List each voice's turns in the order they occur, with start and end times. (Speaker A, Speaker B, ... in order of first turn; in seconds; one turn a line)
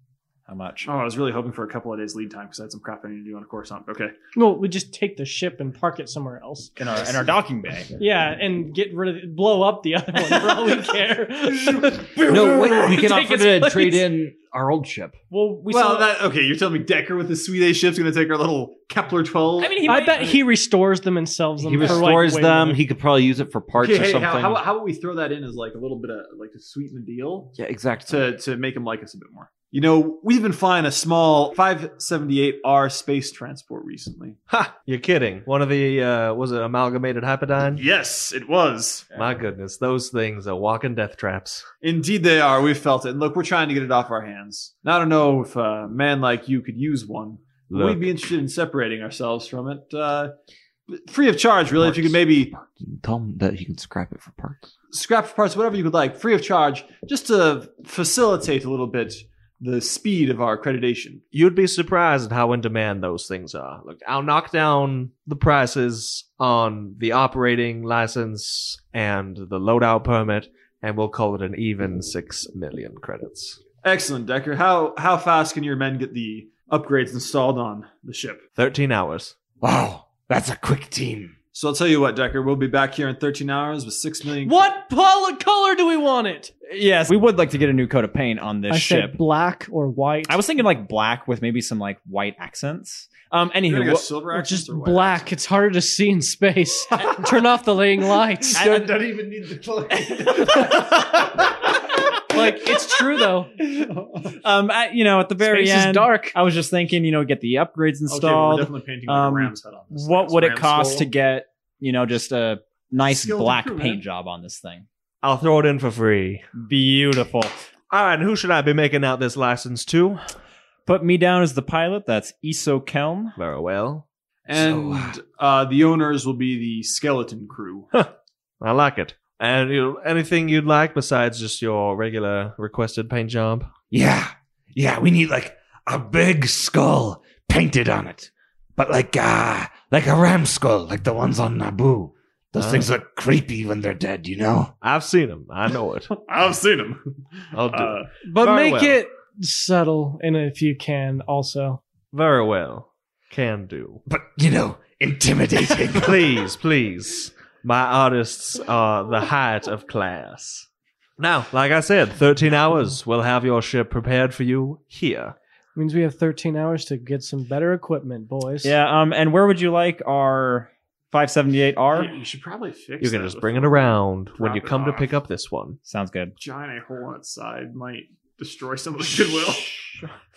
Speaker A: 0.5-0.9
Speaker B: 0.8-4.2
Speaker C: 4.3-6.7
Speaker A: 6.8-7.9
Speaker C: 8.0-14.1
Speaker B: 11.7-12.8
Speaker D: 12.2-15.2
Speaker A: 15.3-16.0
Speaker C: 15.3-16.0
Speaker B: 15.7-19.8
Speaker A: 19.6-20.4
Speaker C: 19.9-22.8
Speaker D: 21.6-24.6
Speaker B: 21.8-22.1
Speaker B: 23.7-27.6
Speaker D: 27.6-28.4
Speaker B: 28.1-34.4
Speaker E: 34.5-37.8
Speaker B: 37.8-39.1
Speaker E: 39.1-41.7
Speaker B: 41.8-50.3
Speaker E: 47.7-48.1
Speaker B: 50.9-52.6
Speaker D: 51.8-54.7
Speaker B: 54.9-61.2
Speaker E: 61.3-73.6
Speaker B: 73.8-78.4
Speaker E: 78.6-79.3
Speaker F: 79.6-81.3
Speaker B: 81.5-84.7
Speaker C: 84.5-86.5
Speaker A: 86.7-89.2
Speaker C: 88.7-90.4
Speaker A: 90.3-94.1
Speaker B: 93.7-95.2
Speaker C: 94.3-98.9
Speaker A: 98.5-99.4
Speaker B: 98.5-100.5
Speaker A: 99.9-102.4
Speaker C: 100.5-100.8
Speaker C: 102.3-103.5
Speaker A: 103.6-114.9
Speaker B: 103.7-104.3
Speaker C: 105.4-106.4
Speaker B: 108.1-111.1
Speaker B: 113.0-114.0
Speaker E: 115.2-116.4
Speaker A: 116.6-117.5
Speaker E: 117.9-120.2
Speaker A: 120.9-123.4
Speaker E: 123.4-124.0
Speaker B: 124.5-127.9
Speaker F: 124.5-125.2
Speaker E: 128.6-133.7
Speaker F: 133.9-144.7
Speaker E: 142.6-142.9
Speaker E: 144.8-146.1
Speaker B: 146.1-147.1
Speaker E: 147.5-149.0
Speaker B: 147.7-148.1
Speaker C: 148.2-151.8
Speaker E: 152.1-154.0
Speaker F: 154.1-156.4
Speaker E: 155.9-160.7
Speaker E: 161.2-165.4
Speaker C: 165.8-168.8
Speaker A: 168.6-172.2
Speaker B: 171.9-175.1
Speaker E: 173.0-175.8
Speaker A: 175.9-176.3
Speaker B: 176.4-179.8
Speaker A: 179.7-180.1